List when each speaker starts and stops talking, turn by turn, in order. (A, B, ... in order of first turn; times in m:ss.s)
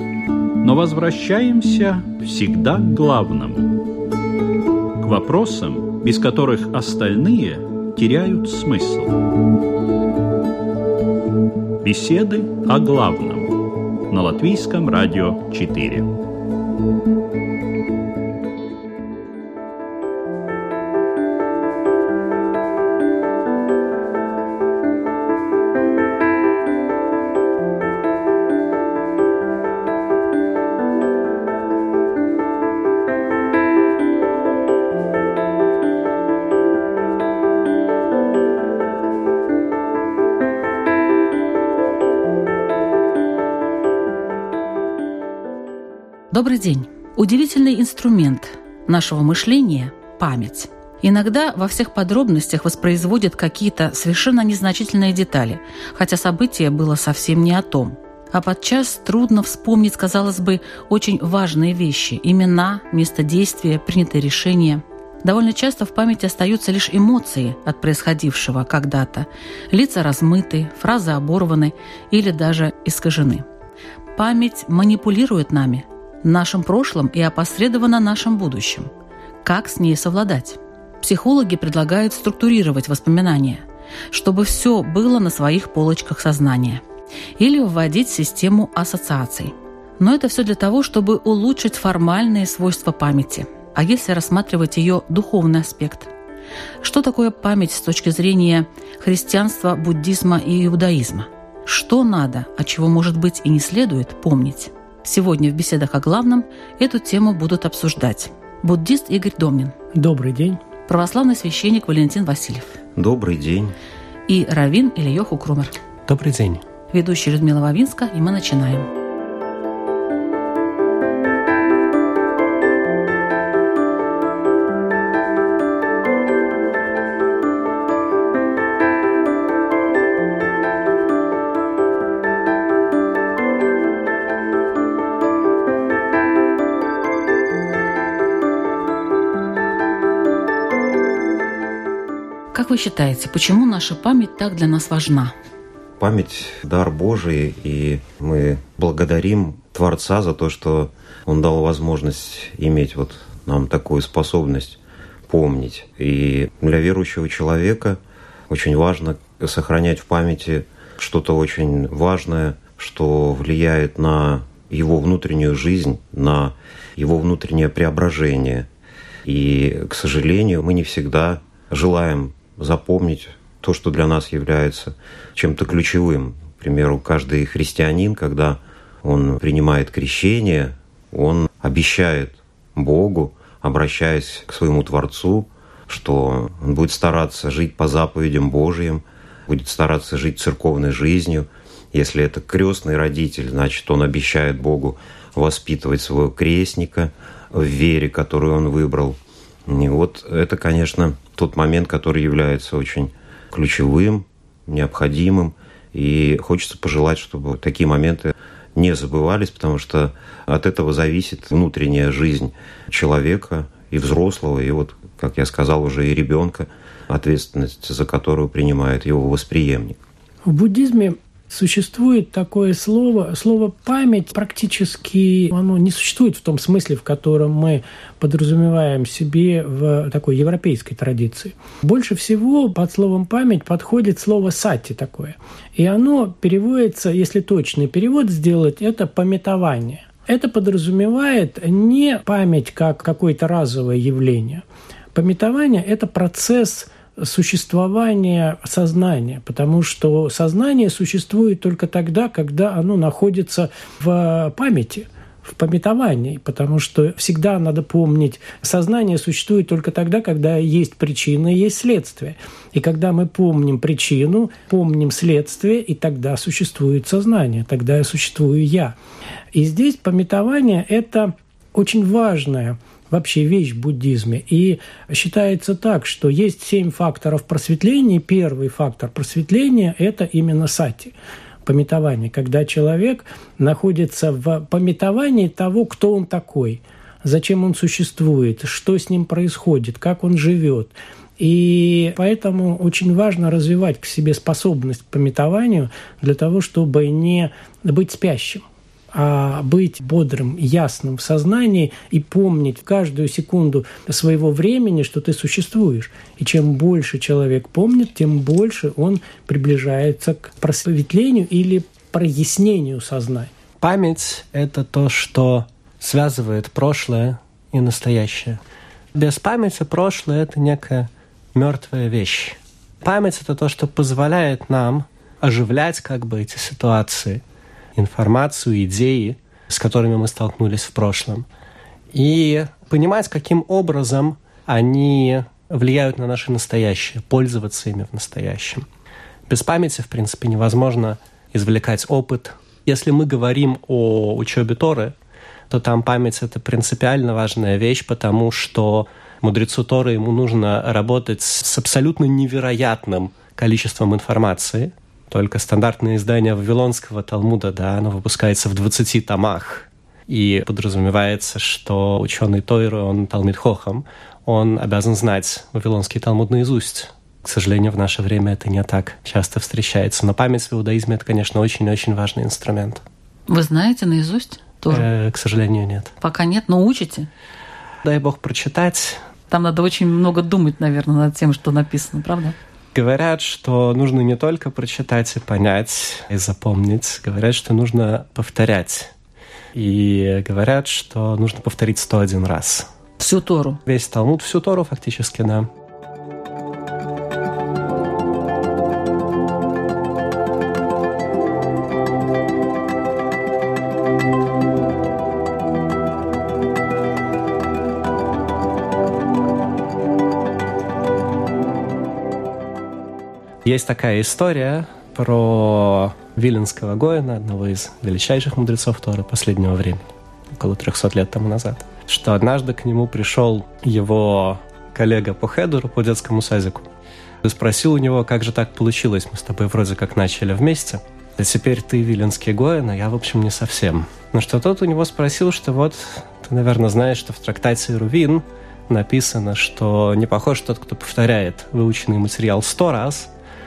0:00.6-0:03.7 A
0:05.0-0:09.2 A
0:11.8-0:13.6 A
0:14.1-0:16.1 A
0:46.3-1:13.4 B
1:14.2-1:18.9 B
1:19.4-1:26.8 B
1:27.4-1:36.1 B
1:36.8-1:49.7 B
1:49.9-1:50.6 C
1:50.9-1:52.8 B
1:53.0-1:53.7 D
1:54.3-1:55.7 B
1:56.1-1:56.6 E
1:56.9-1:58.9 B
2:22.5-2:25.3 B
2:26.0-2:38.0 D
2:38.5-2:48.7 D
2:49.2-3:40.0 D
3:40.4-4:28.9 C
4:29.5-4:41.1 C
4:41.6-5:13.5 C
5:13.8-5:18.6 E
5:19.1-5:27.4 E
5:28.0-5:31.4 E
5:32.1-5:38.8 E
5:39.5-5:45.1 E
5:45.7-6:13.0 E
6:13.5-6:15.1 B
6:14.9-6:16.1 E
6:16.2-6:17.3 B
6:18.0-6:19.2 E
6:19.5-6:22.5 B
6:22.9-6:29.1 E
6:29.7-6:32.8 E
6:33.2-6:33.8 B
6:33.8-6:35.7 E
6:53.6-7:06.8 E
7:07.4-7:23.3 E